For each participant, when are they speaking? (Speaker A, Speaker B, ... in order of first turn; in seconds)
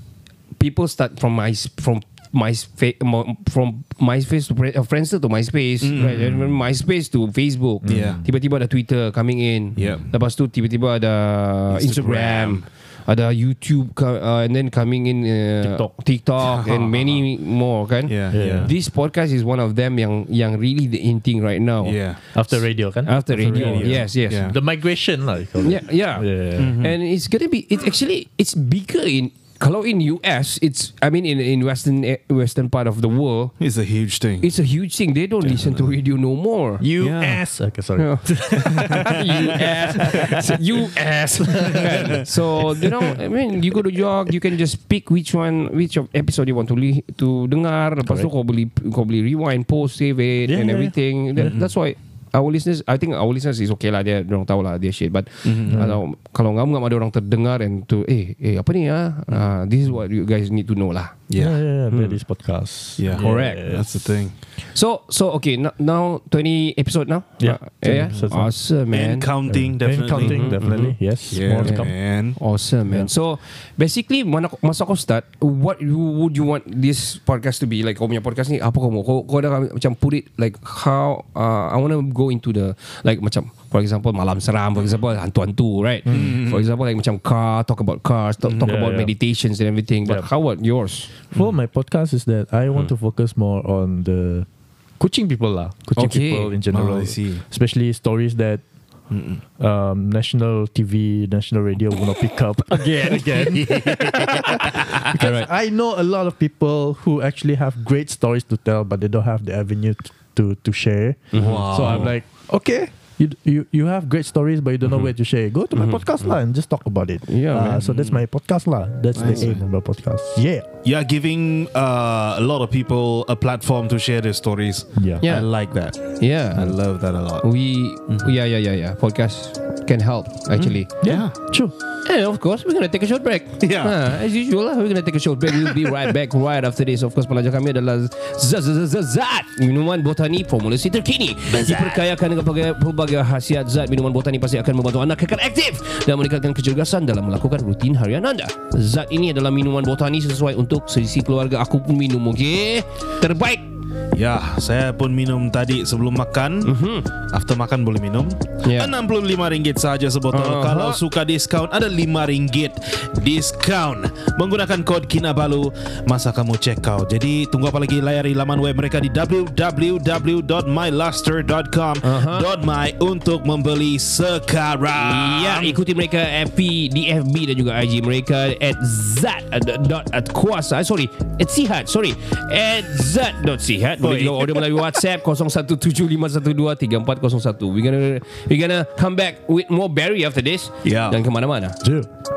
Speaker A: 0.6-22.0, 23.0-24.5, 25.6-33.5, 34.4-36.8, 38.0-61.2, 63.1-63.6, 64.6-69.3, 70.1-70.6, 71.6-91.1, 96.0-96.5, 104.7-105.5, 111.3-112.0, 115.7-116.0, 117.3-117.8, 125.2-131.2, 132.0-153.7, 156.6-157.1, 158.6-158.9, 160.3-161.0, 172.0-172.4, 174.9-191.8
Speaker B: 5.8-6.6, 7.9-8.2, 9.8-10.1, 11.7-12.7, 16.4-17.2, 18.0-18.7, 21.8-22.2, 23.4-24.6, 26.6-26.9, 33.6-34.5, 35.5-35.9, 37.0-37.4, 38.6-39.1, 51.4-51.7, 55.4-55.8, 61.3-61.6, 63.0-64.3, 68.9-72.4, 86.1-86.7, 88.4-88.7, 96.7-97.4, 99.1-99.4, 103.4-104.2, 111.3-112.1, 117.6-118.2, 119.1-119.6, 120.8-127.5, 128.1-128.3, 130.5-131.3, 133.6-134.0, 141.5-142.0, 154.1-175.8, 184.0-185.0, 190.8-191.2
Speaker C: 7.8-8.3, 15.6-15.9, 18.3-18.7, 22.3-26.8, 36.8-40.3, 41.4-42.3, 48.0-48.3, 50.5-51.5, 55.7-56.0, 61.4-64.2, 67.4-68.6, 69.5-72.2, 86.0-86.4, 88.6-89.1, 91.3-94.5, 95.0-98.6, 99.6-120.7, 124.9-125.2, 131.0-131.7, 191.8-192.1